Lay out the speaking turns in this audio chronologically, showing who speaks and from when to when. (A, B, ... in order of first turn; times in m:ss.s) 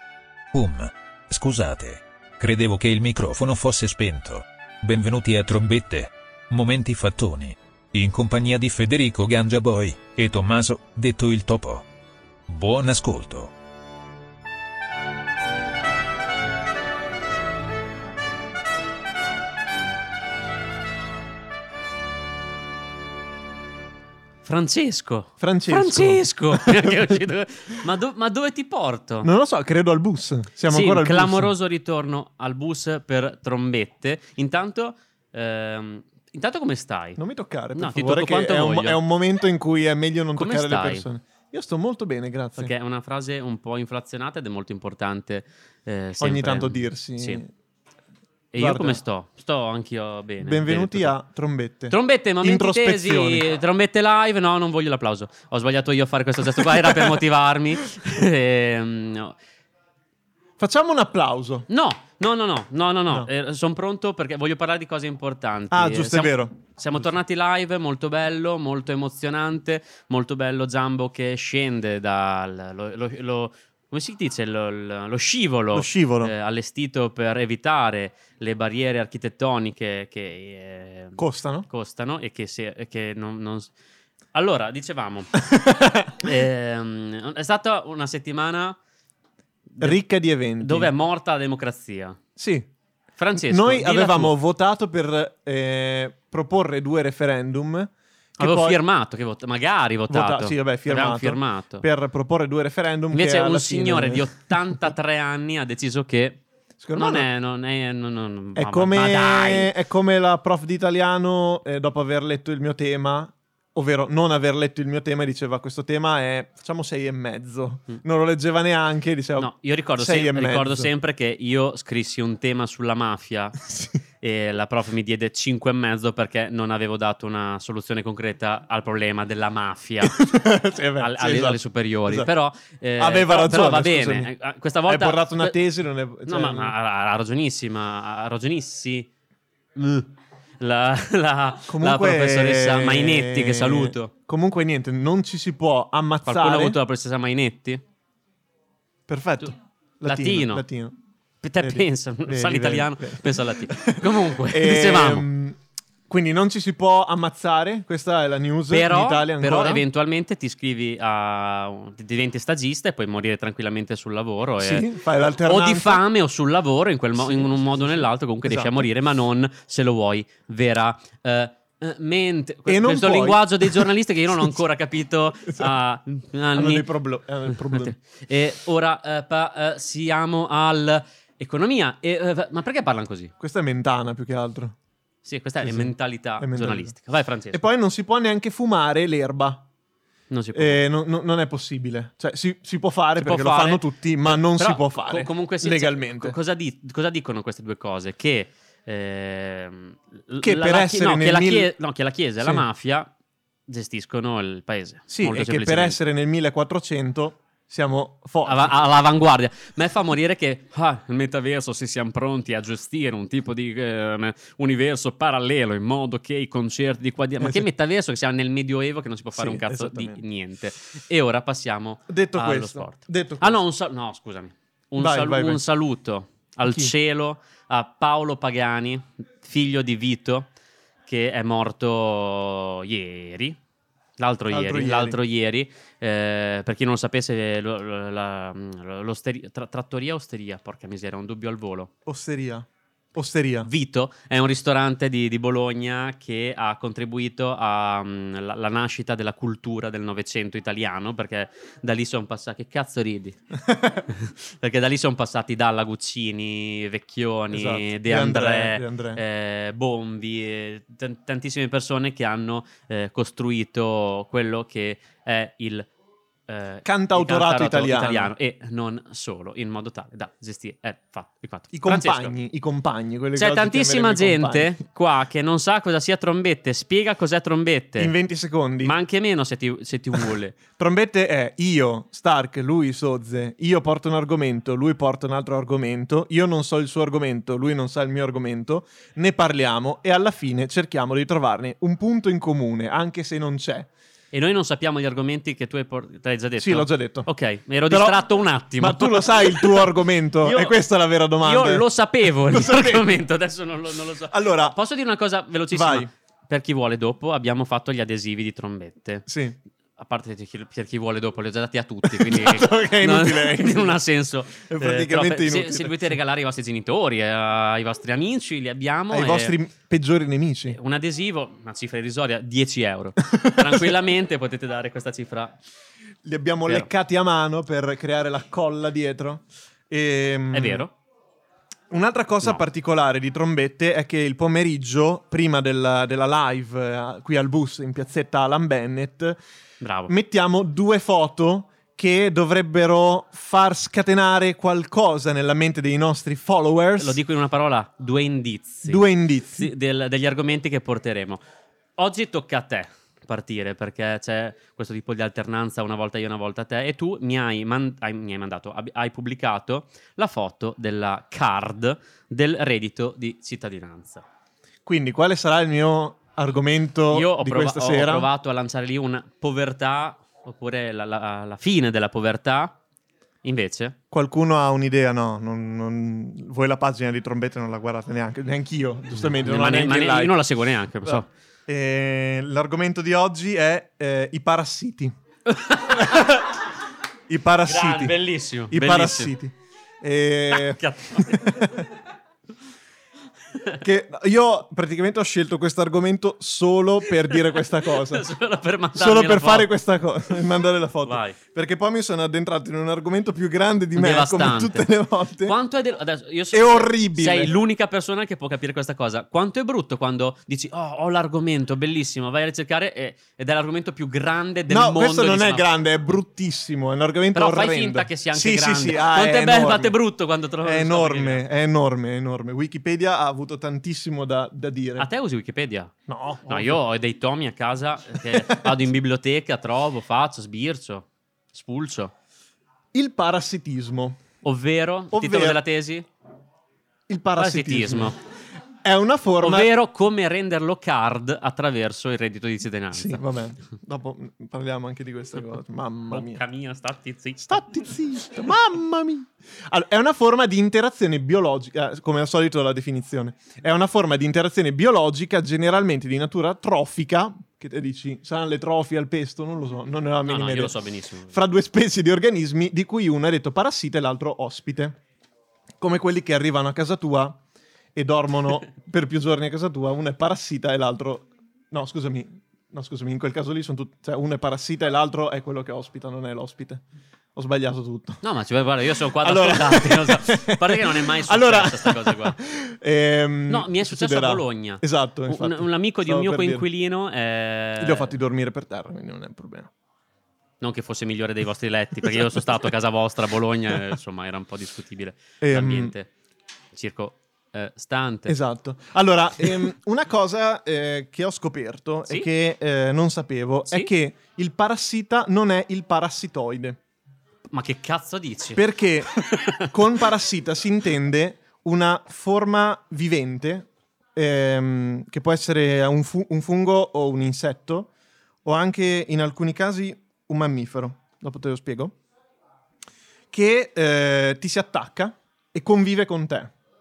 0:00.5-0:11.9 A
0:12.5-0:13.5 A
0:24.4-0:29.3 B
0:25.4-0:27.2 C
0:29.2-0:31.5 C
0:30.7-0:37.2 B
0:37.2-0:42.7 C
0:37.8-0:39.0 B
0:40.4-0:41.1 B
0:42.6-0:47.4 B
0:46.2-0:47.5 C
0:48.5-0:51.2 B
0:48.6-0:49.0 C
0:50.4-0:53.5 C
0:51.9-0:59.4 B
0:56.5-0:57.1 C
1:00.6-1:01.7 C
1:01.7-1:23.7 B
1:05.7-1:06.6 C
1:15.7-1:16.3 C
1:21.2-1:21.7 C
1:24.3-1:25.4 B
1:25.4-1:26.3 C
1:26.1-1:28.8 B
1:29.7-1:30.0 B
1:29.8-1:30.9 C
1:30.6-1:32.2 B
1:32.4-1:32.7 C
1:33.2-1:34.3 B
1:33.4-1:38.8 C
1:38.4-1:41.8 B
1:40.1-1:44.3 C
1:43.1-1:46.4 B
1:46.8-1:47.3 C
1:47.0-1:49.7 B
1:48.6-2:00.9 C
1:59.4-2:03.6 B
2:03.6-2:03.9 C
2:04.2-2:10.3 B
2:10.0-2:12.3 C
2:11.0-2:15.6 B
2:13.0-2:14.3 C
2:14.9-2:16.7 C
2:16.3-2:19.1 B
2:19.8-2:24.1 B
2:21.7-2:26.8 C
2:26.2-2:27.8 B
2:29.1-2:30.9 C
2:30.0-2:30.6 B
2:31.4-2:35.3 B
2:31.6-2:35.6 C
2:36.1-2:39.8 C
2:38.7-2:44.9 B
2:44.6-2:46.0 C
2:45.4-2:56.9 B
2:47.2-2:48.9 C
2:52.7-2:54.5 C
2:55.5-2:55.7 C
2:56.5-2:58.0 C
2:57.5-3:03.3 B
3:03.4-3:04.8 C
3:05.2-3:07.6 B
3:05.6-3:06.9 C
3:07.5-3:09.7 C
3:10.3-3:10.8 B
3:10.5-3:16.4 C
3:13.2-3:23.1 B
3:20.4-3:21.7 C
3:22.4-3:22.6 C
3:23.7-3:26.0 B
3:25.1-3:28.7 C
3:28.4-3:50.5 B
3:37.4-3:37.7 C
3:39.3-3:40.2 C
3:42.1-3:43.6 C
3:45.0-3:45.6 C
3:46.6-3:46.9 C
3:51.1-3:53.6 B
3:54.2-4:01.9 B
3:54.5-3:55.2 C
4:02.1-4:03.7 C
4:03.6-4:13.4 B
4:13.6-4:14.0 C
4:14.1-4:25.9 B
4:17.5-4:19.2 C
4:26.5-4:32.3 B
4:26.8-4:28.3 C
4:31.7-4:34.8 C
4:33.4-4:38.1 B
4:38.0-4:39.0 C
4:38.8-4:40.6 B
4:40.7-4:53.9 C
4:54.3-4:59.9 B
4:56.6-4:57.3 C
4:57.9-4:58.3 C
4:58.8-5:01.9 C
5:00.4-5:00.8 B
5:01.4-5:09.3 B
5:02.4-5:03.2 C
5:04.3-5:04.8 C
5:05.7-5:06.1 C
5:09.3-5:09.6 C
5:10.0-5:19.6 B
5:12.0-5:14.0 C
5:14.6-5:16.1 C
5:19.1-5:20.8 C
5:20.7-5:25.6 B
5:23.3-5:23.9 C
5:26.2-5:30.9 C
5:30.5-5:30.9 B
5:31.9-5:39.4 C
5:39.8-5:40.1 B
5:40.1-5:47.2 C
5:47.0-5:49.0 B
5:48.9-5:49.7 C
5:49.6-5:51.4 B
5:52.0-6:04.2 B
6:04.9-6:08.3 C
6:07.1-6:12.8 B
6:13.4-6:14.0 B
6:14.1-6:20.4 C
6:19.3-6:21.3 B
6:21.0-6:25.1 C
6:25.5-6:26.4 B
6:25.9-6:26.4 C
6:27.3-6:28.2 C
6:27.7-6:29.3 B
6:28.7-6:31.9 C
6:30.5-6:31.6 B
6:33.8-6:38.3 C
6:37.9-6:39.7 B
6:39.0-6:45.6 C
6:41.0-6:41.4 B
6:44.0-6:44.9 B
6:45.4-6:55.7 B
6:46.5-6:47.5 C
6:54.7-7:00.0 C
6:57.4-7:01.5 B
7:00.6-7:05.1 C
7:05.0-7:05.9 B
7:06.1-7:06.8 C
7:06.5-7:12.1 B
7:08.3-7:08.8 C
7:12.9-7:14.2 C
7:14.4-7:16.1 B
7:15.1-7:15.6 C
7:17.1-7:18.2 C
7:17.4-7:18.2 B
7:18.8-7:19.7 C
7:19.4-7:23.2 B
7:22.9-7:26.4 C
7:26.1-7:27.8 B
7:27.4-7:40.8 C
7:40.3-7:41.4 B
7:41.3-7:45.0 C
7:45.8-7:47.4 C
7:48.0-7:56.8 C
7:57.4-7:58.2 C
7:58.2-8:02.4 B
7:59.2-8:06.7 C
8:03.5-8:08.2 B
8:07.8-8:09.7 C
8:10.6-8:16.1 B
8:12.1-8:12.4 C
8:15.4-8:15.9 C
8:16.7-8:18.4 B
8:18.3-8:26.8 C
8:27.5-8:29.7 B
8:28.6-8:37.9 C
8:38.4-8:42.0 C
8:43.3-8:46.5 C